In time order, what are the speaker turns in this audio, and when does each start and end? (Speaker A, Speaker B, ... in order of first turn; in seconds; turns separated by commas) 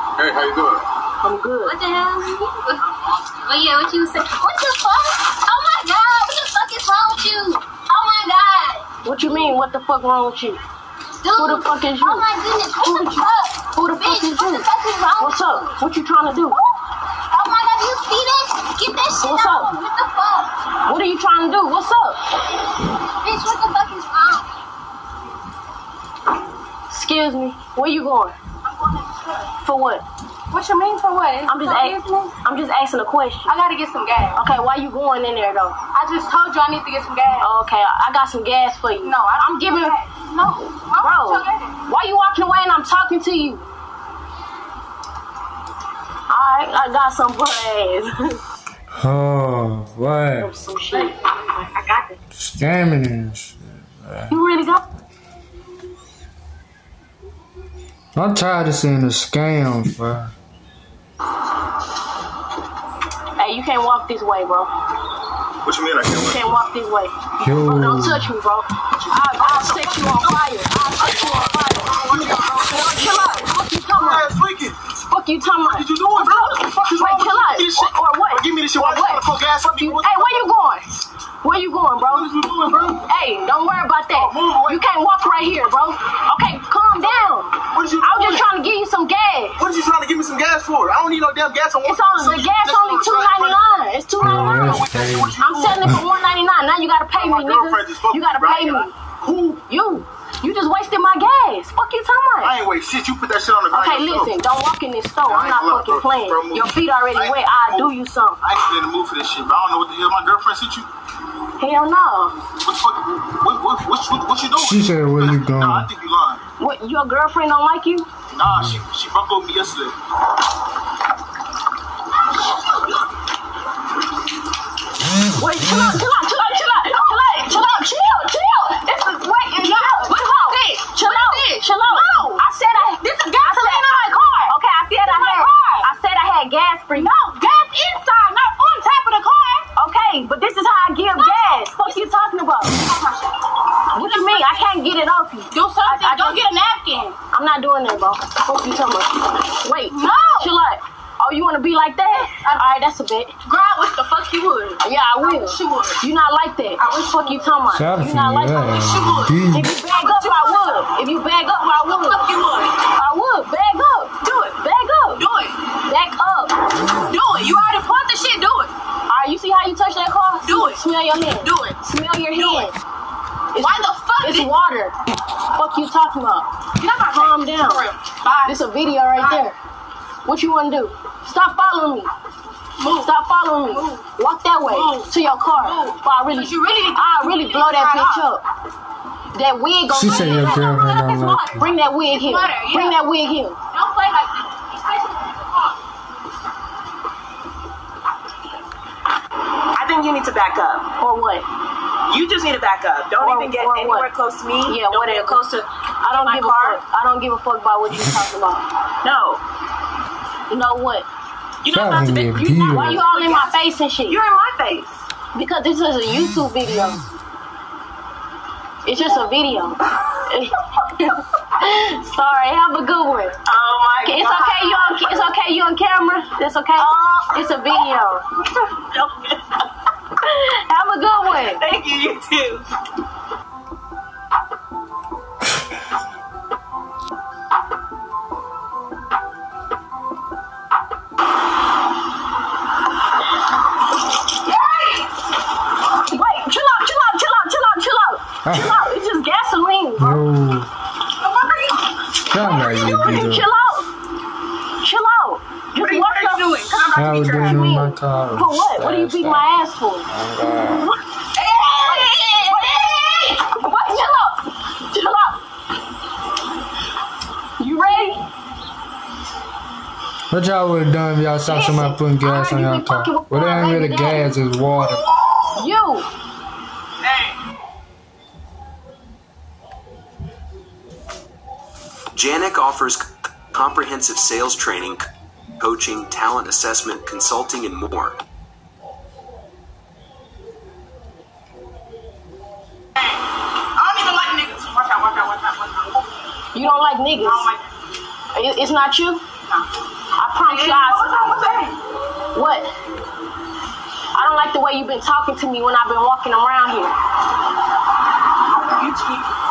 Speaker A: 1.2-1.7, Speaker B: 1.6-8.9, Speaker A: 9.0-10.6, Speaker B: 11.2-15.8, Speaker A: 11.3-16.6, Speaker B: 17.3-20.5, Speaker A: 19.2-19.7, Speaker A: 20.8-22.2, Speaker B: 23.2-24.5, Speaker A: 26.9-28.4, Speaker B: 28.7-29.5, Speaker A: 29.6-30.0, Speaker B: 30.5-32.4, Speaker A: 31.4-33.5, Speaker B: 33.5-34.4, Speaker A: 34.4-35.8, Speaker B: 35.9-37.5, Speaker A: 37.4-40.0, Speaker B: 39.0-41.8, Speaker A: 41.0-43.7, Speaker A: 46.3-48.4, Speaker C: 49.0-50.5, Speaker A: 50.4-51.1, Speaker B: 50.9-52.2, Speaker C: 52.4-54.4, Speaker A: 54.3-54.8, Speaker C: 58.1-60.3, Speaker A: 63.4-64.7, Speaker D: 65.6-66.4, Speaker A: 66.1-74.3, Speaker C: 67.4-68.3, Speaker D: 69.4-74.8, Speaker A: 75.1-80.9, Speaker D: 75.7-80.5, Speaker A: 81.4-82.3, Speaker D: 82.0-83.0, Speaker A: 83.1-89.6, Speaker D: 84.1-84.9, Speaker D: 87.7-88.4, Speaker D: 89.6-93.7, Speaker A: 91.8-94.8, Speaker C: 94.2-96.0, Speaker D: 94.3-96.0, Speaker A: 95.4-98.9, Speaker D: 97.1-99.6, Speaker A: 99.7-102.5, Speaker D: 102.4-104.3, Speaker A: 103.7-108.4, Speaker D: 105.2-110.9, Speaker A: 111.6-112.3, Speaker D: 112.6-116.4, Speaker C: 114.5-115.9, Speaker A: 116.6-118.1, Speaker D: 118.3-119.9, Speaker C: 118.5-118.8, Speaker B: 122.5-123.0, Speaker A: 125.3-137.1, Speaker B: 126.9-128.0, Speaker B: 128.8-135.8, Speaker B: 136.9-139.7, Speaker A: 139.8-142.7, Speaker B: 141.1-142.0, Speaker B: 142.6-143.3, Speaker A: 143.9-146.4, Speaker B: 143.9-144.7, Speaker B: 145.5-147.2, Speaker A: 147.3-153.3, Speaker B: 149.9-150.5, Speaker B: 152.3-152.6, Speaker B: 153.4-156.0, Speaker A: 154.8-158.8, Speaker B: 156.8-157.7, Speaker C: 157.7-159.7, Speaker B: 158.7-159.3, Speaker A: 159.5-162.3, Speaker B: 159.9-160.8, Speaker B: 161.6-162.8, Speaker A: 162.9-165.2, Speaker B: 164.2-164.5, Speaker B: 165.1-165.6, Speaker A: 165.8-166.6, Speaker B: 167.0-168.7, Speaker A: 169.1-172.7, Speaker B: 170.4-170.8, Speaker B: 171.4-171.8, Speaker B: 172.3-172.7, Speaker A: 173.5-174.9, Speaker B: 173.6-174.5, Speaker A: 175.5-176.4, Speaker B: 176.8-178.6, Speaker A: 177.1-177.9, Speaker A: 178.4-179.6, Speaker B: 179.2-179.5, Speaker A: 180.2-182.1, Speaker B: 182.8-183.1, Speaker A: 183.0-188.4, Speaker B: 183.7-184.1, Speaker B: 184.6-188.2, Speaker A: 189.3-190.6, Speaker C: 189.9-191.7, Speaker B: 190.2-192.9, Speaker A: 191.6-193.6, Speaker B: 193.7-195.8, Speaker E: 199.7-200.8, Speaker A: 201.0-201.4, Speaker E: 202.1-206.8, Speaker A: 203.2-204.1, Speaker A: 204.7-205.4, Speaker A: 206.0-208.6, Speaker E: 209.0-209.4, Speaker A: 210.5-211.1, Speaker E: 211.6-215.0, Speaker C: 211.7-213.0, Speaker A: 212.6-214.2, Speaker A: 215.3-217.0, Speaker A: 218.8-223.4, Speaker E: 223.4-225.2, Speaker A: 224.0-228.2, Speaker E: 226.8-227.5, Speaker E: 228.7-229.2, Speaker A: 230.2-231.6, Speaker E: 231.3-232.7, Speaker A: 246.1-250.2, Speaker C: 248.4-248.8, Speaker C: 250.0-250.7, Speaker B: 251.2-251.6, Speaker C: 252.3-253.5, Speaker B: 252.6-252.9, Speaker A: 252.7-253.9, Speaker A: 254.8-260.1, Speaker B: 255.8-257.6, Speaker C: 256.9-259.5, Speaker C: 260.1-260.9, Speaker B: 261.4-263.3, Speaker A: 261.8-265.4, Speaker A: 267.6-268.2, Speaker C: 270.3-275.0, Speaker A: 271.4-274.3, Speaker A: 275.5-276.1, Speaker F: 282.1-285.1, Speaker F: 285.6-288.2, Speaker B: 293.8-295.1, Speaker E: 294.0-295.8, Speaker A: 296.5-297.5, Speaker B: 297.2-297.6, Speaker A: 298.3-299.2, Speaker A: 300.1-301.1, Speaker E: 300.4-301.7, Speaker B: 301.1-301.6, Speaker A: 302.3-302.7, Speaker A: 304.1-306.9, Speaker E: 308.8-309.3